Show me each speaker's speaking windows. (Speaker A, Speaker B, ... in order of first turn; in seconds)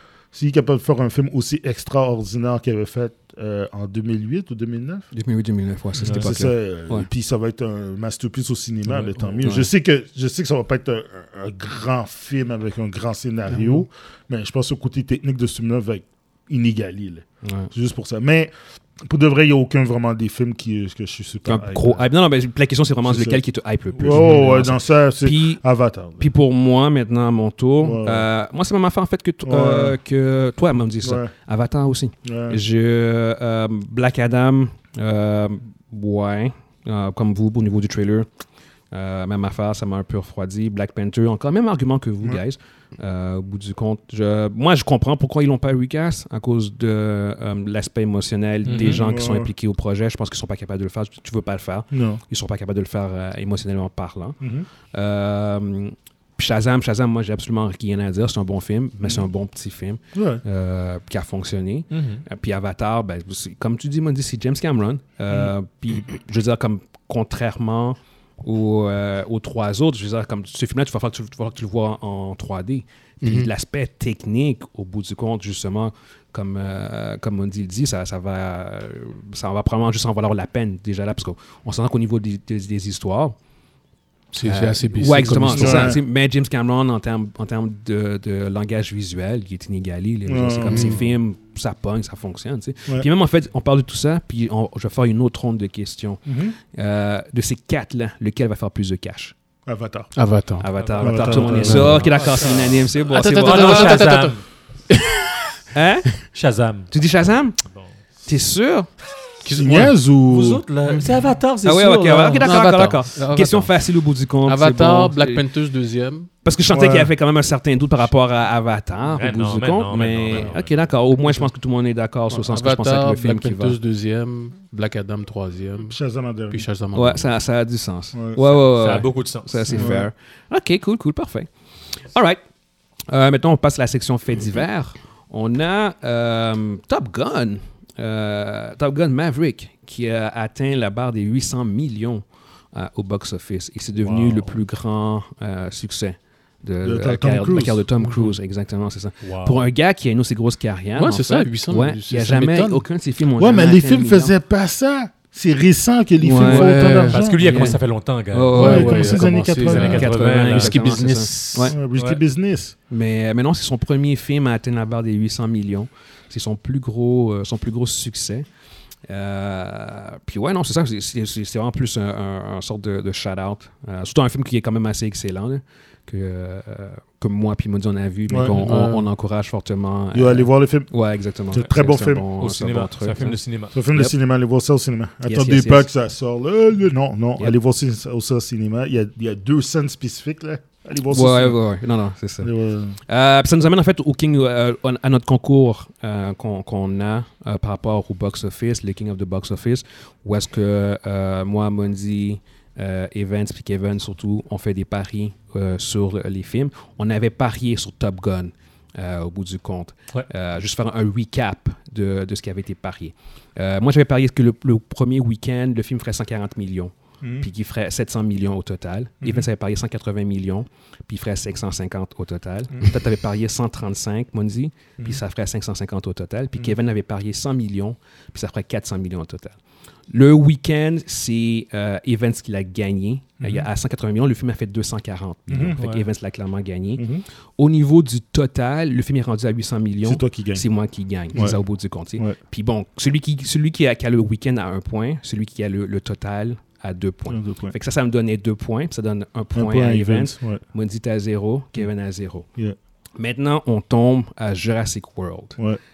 Speaker A: 0.3-5.1, 6.0-22.1, 23.0-23.4, 24.0-26.3, 27.8-28.3, 29.4-30.0, 31.0-31.3, 32.2-32.6, 48.7-49.5, 51.9-52.2, 54.4-54.7, 60.1-60.4, 85.5-86.0, 90.2-91.0, 96.2-96.5, 99.7-100.1, 101.0-102.0, 109.5-111.1, 116.7-117.1, 125.9-126.7, 128.1-128.4, 129.7-130.1, 146.8-147.8, 153.4-157.4, 158.6-160.1, 161.7-162.7, 178.3-178.6, 180.1-180.9, 181.5-182.3, 183.7-191.6, 192.4-193.0, 217.2-217.5, 219.2-219.5, 233.4-233.7, 235.5-235.8, 237.0-237.2, 240.0-240.6, 241.3-241.6, 247.3-247.7, 249.5-250.6
Speaker B: 5.1-7.1, 9.4-9.7, 17.4-17.7, 21.4-25.6, 26.2-38.3, 38.9-54.4, 54.9-83.3, 84.4-99.3, 100.6-104.0, 105.7-106.2, 106.9-107.6, 108.2-108.9, 111.6-115.4, 116.4-123.8, 126.9-131.5, 132.1-132.4, 133.1-154.3, 156.2-157.8, 158.3-161.8, 162.9-168.4, 169.1-183.4, 185.2-185.9, 191.1-192.5, 193.1-229.6, 230.1-237.0, 237.6-252.5, 253.2-255.6
Speaker C: 6.0-6.3, 8.9-9.4, 48.6-49.0, 61.9-62.2, 100.8-104.4, 106.3-106.9, 110.2-112.5, 119.1-120.8, 128.6-129.8, 144.0-144.5, 149.2-149.6, 157.1-159.0, 159.6-160.8, 182.4-183.7, 235.8-236.1
Speaker D: 13.5-13.8, 73.2-73.5, 84.3-85.9, 90.7-91.0, 100.1-100.7, 101.5-102.1, 103.1-105.5, 109.4-109.9, 112.4-113.7, 114.4-116.3, 122.3-125.9, 126.5-127.3, 150.9-152.8, 156.4-157.7, 158.5-161.7, 178.6-179.1